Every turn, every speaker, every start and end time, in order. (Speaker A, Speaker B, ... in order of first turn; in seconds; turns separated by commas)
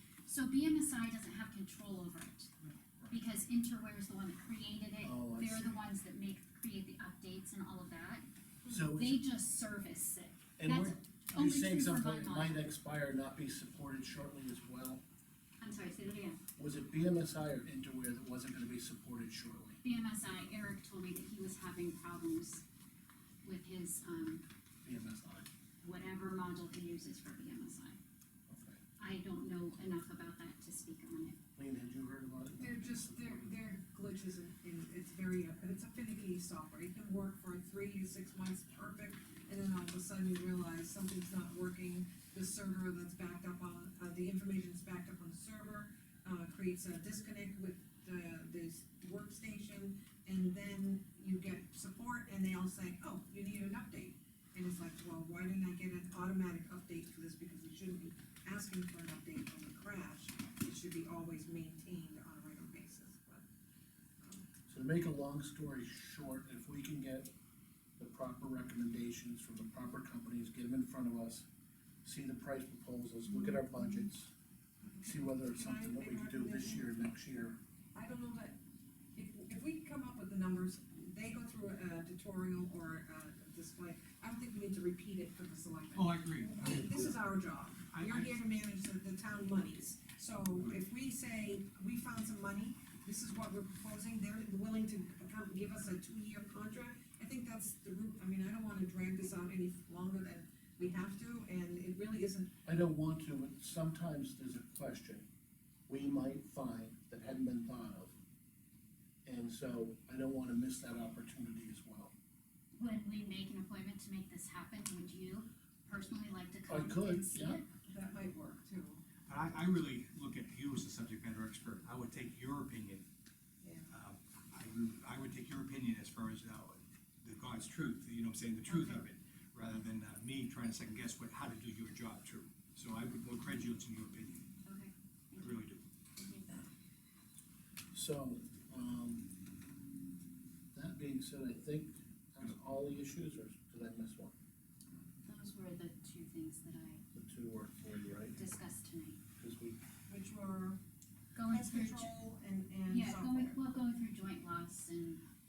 Speaker A: 0.2-2.5, Speaker A: 3.1-12.6, Speaker B: 5.0-5.7, Speaker B: 8.7-9.2, Speaker B: 10.6-15.0, Speaker A: 15.6-16.4, Speaker B: 16.6-19.8, Speaker A: 19.8-22.6, Speaker A: 23.4-24.4, Speaker B: 24.8-25.5, Speaker A: 25.8-28.0, Speaker B: 28.5-28.8, Speaker A: 29.0-31.4, Speaker B: 31.6-33.5, Speaker C: 32.6-63.4, Speaker C: 64.2-64.5, Speaker B: 64.7-67.3, Speaker B: 68.0-71.5, Speaker B: 72.0-74.3, Speaker A: 73.3-73.6, Speaker C: 74.9-76.9, Speaker B: 75.0-77.6, Speaker C: 77.9-78.6, Speaker C: 79.2-102.5, Speaker D: 85.9-87.2, Speaker D: 87.9-88.3, Speaker B: 102.6-105.2, Speaker B: 105.9-108.2, Speaker B: 109.2-112.1, Speaker A: 112.8-117.7, Speaker B: 116.7-117.6, Speaker C: 117.8-119.0, Speaker D: 119.3-123.0, Speaker C: 123.6-123.9, Speaker D: 123.9-134.5, Speaker C: 128.7-129.0, Speaker A: 134.6-135.6, Speaker D: 135.4-135.8, Speaker A: 136.2-136.7, Speaker B: 137.9-139.3, Speaker B: 140.7-144.3, Speaker A: 145.2-147.0, Speaker B: 147.1-148.4, Speaker A: 148.3-149.2, Speaker B: 149.4-149.8, Speaker C: 150.1-150.8, Speaker A: 151.3-152.1, Speaker C: 151.5-153.6, Speaker A: 152.9-155.2